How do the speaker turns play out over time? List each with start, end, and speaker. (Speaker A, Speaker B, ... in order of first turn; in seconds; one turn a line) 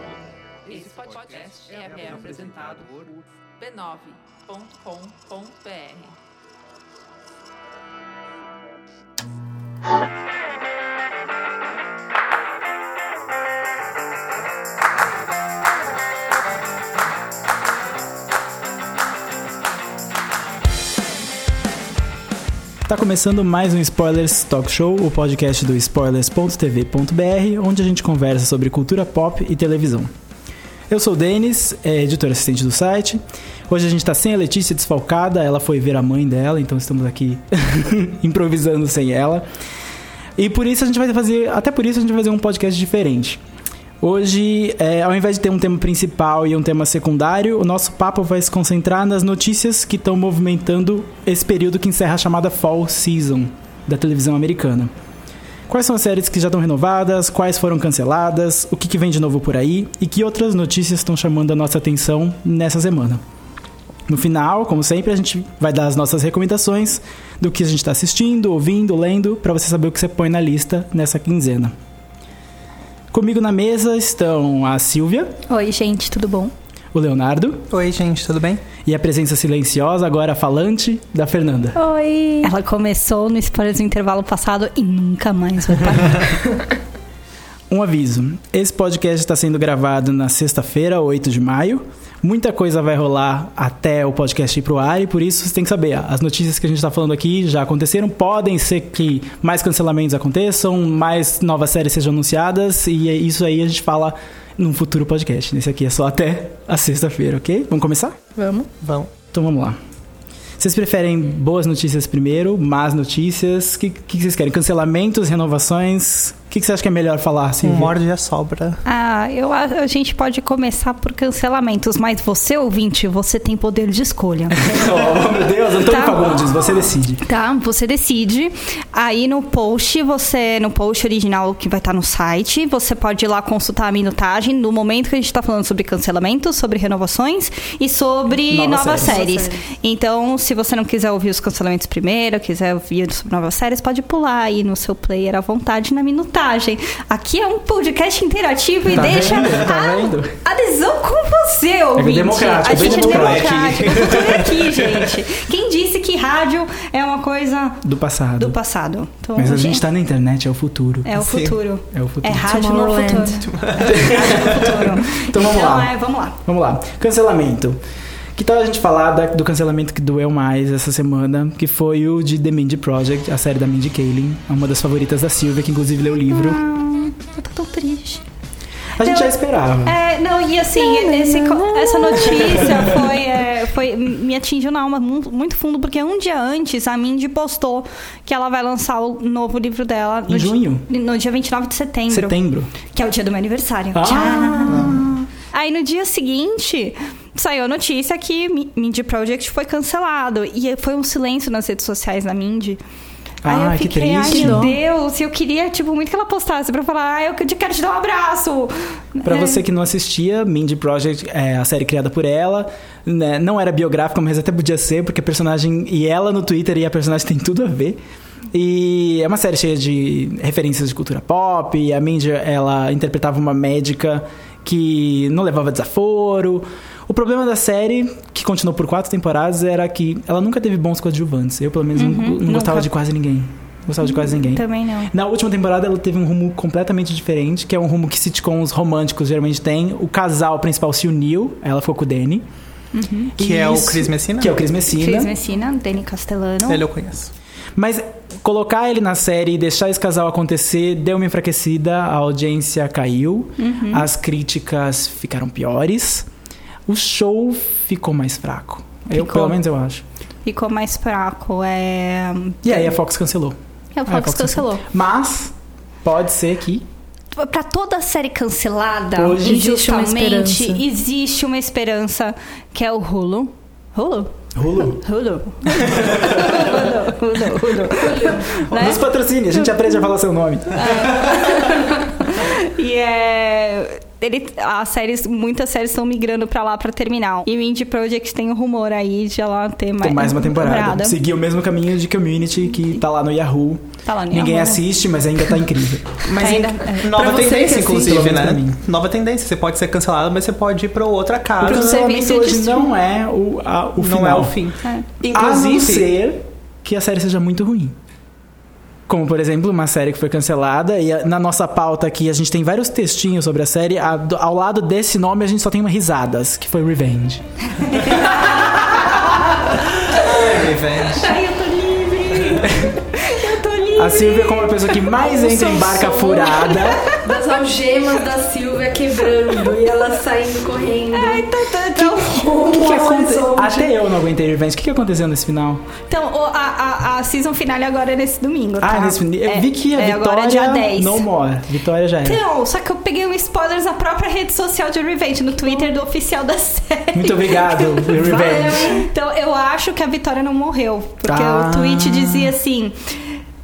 Speaker A: 0.7-6.2
Speaker B: 22.9-30.1
Speaker B: 30.9-39.5
Speaker B: 40.4-43.4
Speaker B: 44.0-54.9
Speaker B: 55.7-63.2
Speaker B: 64.1-71.7
Speaker B: 73.1-75.4
Speaker C: 75.5-76.5
Speaker B: 76.9-77.7
Speaker D: 77.7-78.6
Speaker B: 78.8-81.8
Speaker C: 81.8-86.5
Speaker B: 87.7-108.2
Speaker E: 108.4-108.7
Speaker D: 108.8-109.1
Speaker B: 109.3-109.8
Speaker B: 110.6-118.0
Speaker D: 117.6-118.8
Speaker C: 118.9-124.7
Speaker B: 124.5-127.2
Speaker C: 125.8-126.4
Speaker C: 127.2-157.8
Speaker B: 138.5-139.2
Speaker E: 139.1-139.7
Speaker B: 148.9-150.4
Speaker B: 152.0-154.4
Speaker D: 152.7-155.1
Speaker B: 157.8-158.6
Speaker C: 158.4-159.8
Speaker B: 159.4-162.6
Speaker C: 161.0-166.4
Speaker D: 161.2-161.6
Speaker E: 162.4-163.4
Speaker D: 163.4-164.1
Speaker B: 163.8-165.9
Speaker B: 166.4-167.8
Speaker B: 168.4-176.6
Speaker C: 176.3-178.2
Speaker B: 179.0-180.0
Speaker C: 179.0-192.4
Speaker E: 180.8-182.6
Speaker B: 182.6-182.9
Speaker B: 190.3-190.9
Speaker B: 192.1-192.7
Speaker C: 192.9-202.8
Speaker B: 193.9-195.2
Speaker B: 203.4-204.8
Speaker C: 203.4-209.6
Speaker E: 204.2-204.8
Speaker B: 209.2-218.0
Speaker B: 218.5-242.4
Speaker C: 232.0-232.9
Speaker C: 234.2-235.1
Speaker C: 242.9-243.3
Speaker B: 243.4-245.3
Speaker D: 243.4-244.6
Speaker C: 244.9-246.9
Speaker D: 246.7-247.3
Speaker B: 247.8-256.3
Speaker C: 253.6-254.1
Speaker B: 256.9-260.0
Speaker C: 259.1-259.6
Speaker C: 260.4-262.9
Speaker B: 262.6-265.5
Speaker C: 263.9-264.8
Speaker B: 266.0-266.9
Speaker C: 267.3-274.3
Speaker B: 269.1-269.6
Speaker E: 269.4-270.8
Speaker B: 274.6-275.0
Speaker C: 274.9-279.0
Speaker B: 275.8-276.5
Speaker E: 278.1-278.4
Speaker B: 278.7-281.3
Speaker C: 280.7-291.2
Speaker B: 290.0-296.8
Speaker C: 294.1-294.8
Speaker C: 296.3-297.5
Speaker D: 297.0-301.9
Speaker E: 297.1-298.3
Speaker B: 297.6-298.8
Speaker B: 301.6-304.6
Speaker C: 301.6-302.9
Speaker D: 304.0-306.1
Speaker B: 305.3-308.0
Speaker B: 309.1-318.2
Speaker C: 317.8-325.1
Speaker D: 320.1-321.3
Speaker B: 322.6-322.9
Speaker B: 324.0-327.1
Speaker E: 325.2-333.9
Speaker C: 326.3-327.2
Speaker C: 331.1-332.7
Speaker B: 332.6-335.9
Speaker C: 336.1-341.2
Speaker B: 338.8-342.4
Speaker C: 342.2-353.4
Speaker B: 347.1-349.1
Speaker B: 351.3-352.6